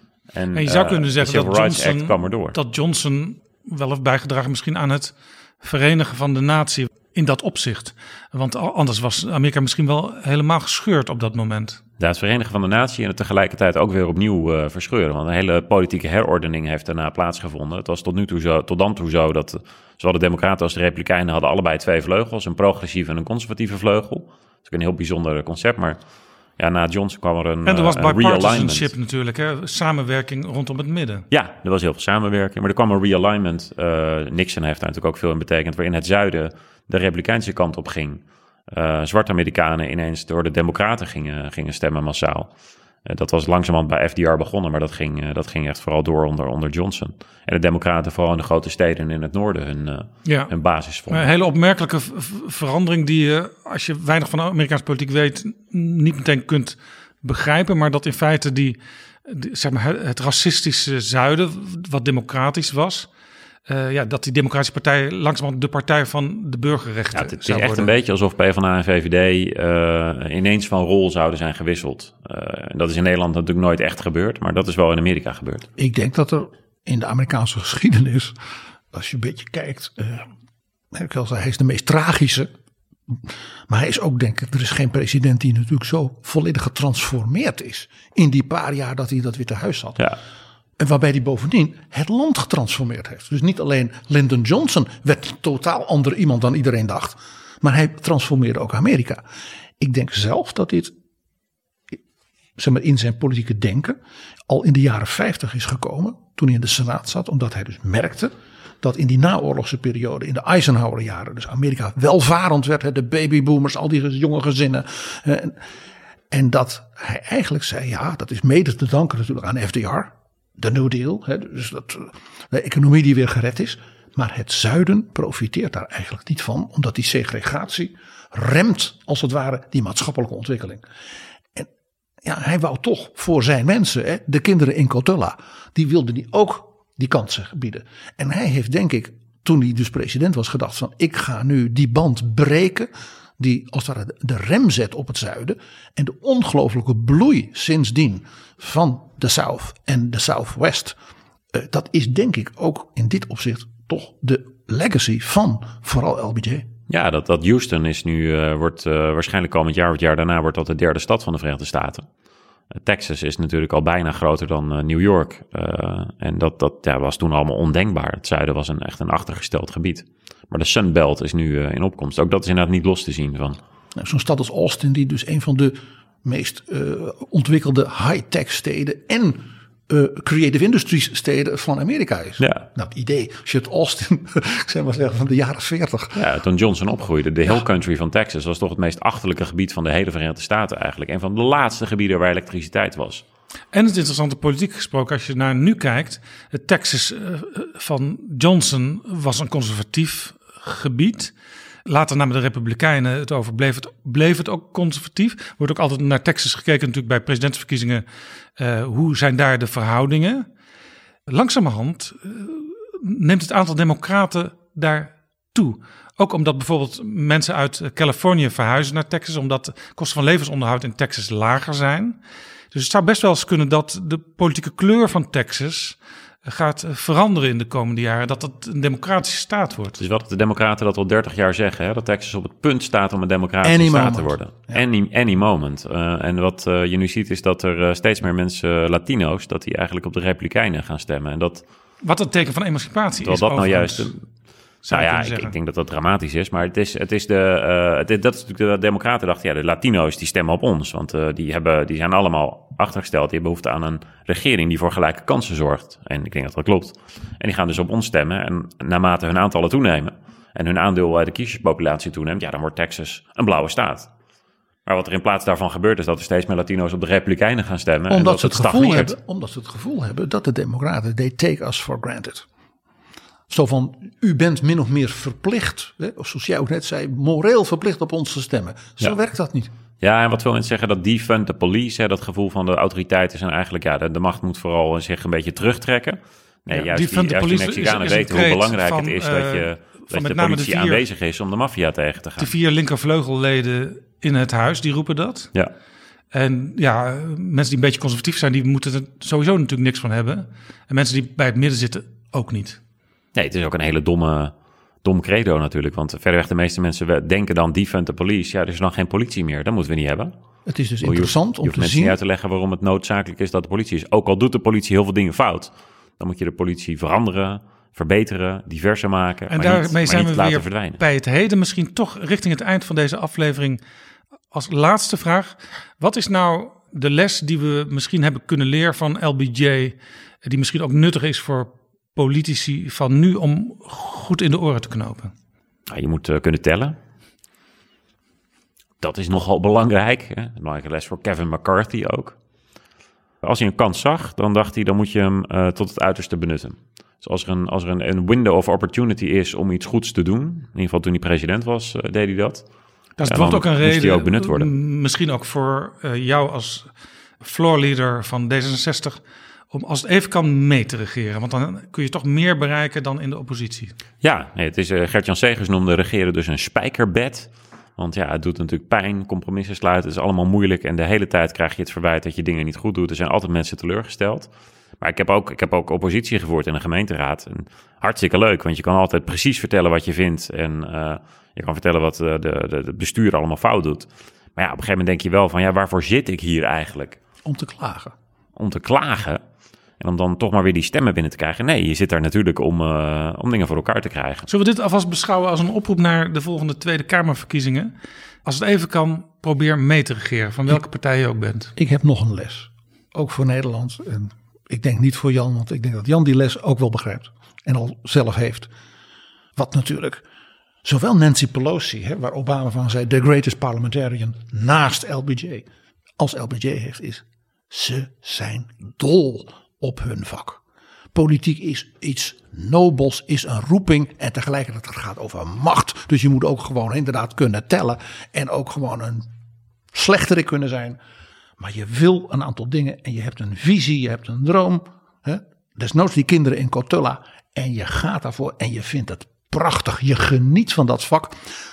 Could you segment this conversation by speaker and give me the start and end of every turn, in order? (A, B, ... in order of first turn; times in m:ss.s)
0:00.3-0:02.5 A
0:00.5-0:11.8 B
0:12.0-0:26.0 A
0:26.6-0:28.9 A
0:27.6-0:31.2 B
0:31.3-0:42.5 A
0:43.0-0:51.3 A
0:50.2-0:50.5 B
0:51.1-1:03.1 B
1:03.7-1:07.9 B
1:07.1-1:15.6 A
1:15.8-1:18.3 C
1:18.9-1:20.3 C
1:20.9-1:22.5 C
1:23.3-1:30.0 C
1:30.8-1:39.2 C
1:39.8-1:40.9 C
1:42.6-1:55.6 C
1:56.3-2:10.8 C
2:12.2-2:30.9 C
2:31.5-2:36.7 C
2:36.9-2:42.0 A
2:42.8-2:53.6 A
2:53.9-3:06.2 C
3:02.4-3:02.6 A
3:06.1-3:13.2 A
3:13.7-3:21.3 B
3:21.8-3:28.0 B
3:28.6-3:30.5 B
3:31.3-3:42.2 B
3:42.7-3:50.0 B
3:50.0-4:01.6 A
3:53.6-3:54.8 C
4:02.0-4:04.1 B
4:03.2-4:04.2 A
4:04.8-4:05.5 B
4:04.9-4:24.1 A
4:24.8-4:29.1 A
4:28.1-4:32.4 C
4:33.5-4:39.7 C
4:40.0-4:52.5 A
4:46.7-4:51.0 B
4:52.4-4:55.5 B
4:56.3-5:02.8 B
5:03.3-5:10.3 A
5:10.6-5:12.2 C
5:11.0-5:21.0 A
5:19.5-5:23.8 B
5:24.5-5:35.3 B
5:35.9-5:37.0 A
5:39.0-5:42.4 A
5:43.4-5:52.6 A
5:53.2-5:56.9 B
5:53.2-5:54.7 A
5:57.4-6:03.9 B
6:04.2-6:14.5 A
6:15.0-6:27.2 A
6:27.4-6:28.1 C
6:28.6-6:29.4 A
6:30.0-6:34.5 A
6:34.5-6:37.9 B
6:38.4-6:41.7 B
6:41.8-6:48.7 C
6:49.6-6:50.2 C
6:50.8-6:55.6 C
6:56.2-7:00.6 C
7:01.1-7:09.3 C
7:09.9-7:11.0 C
7:11.6-7:21.4 C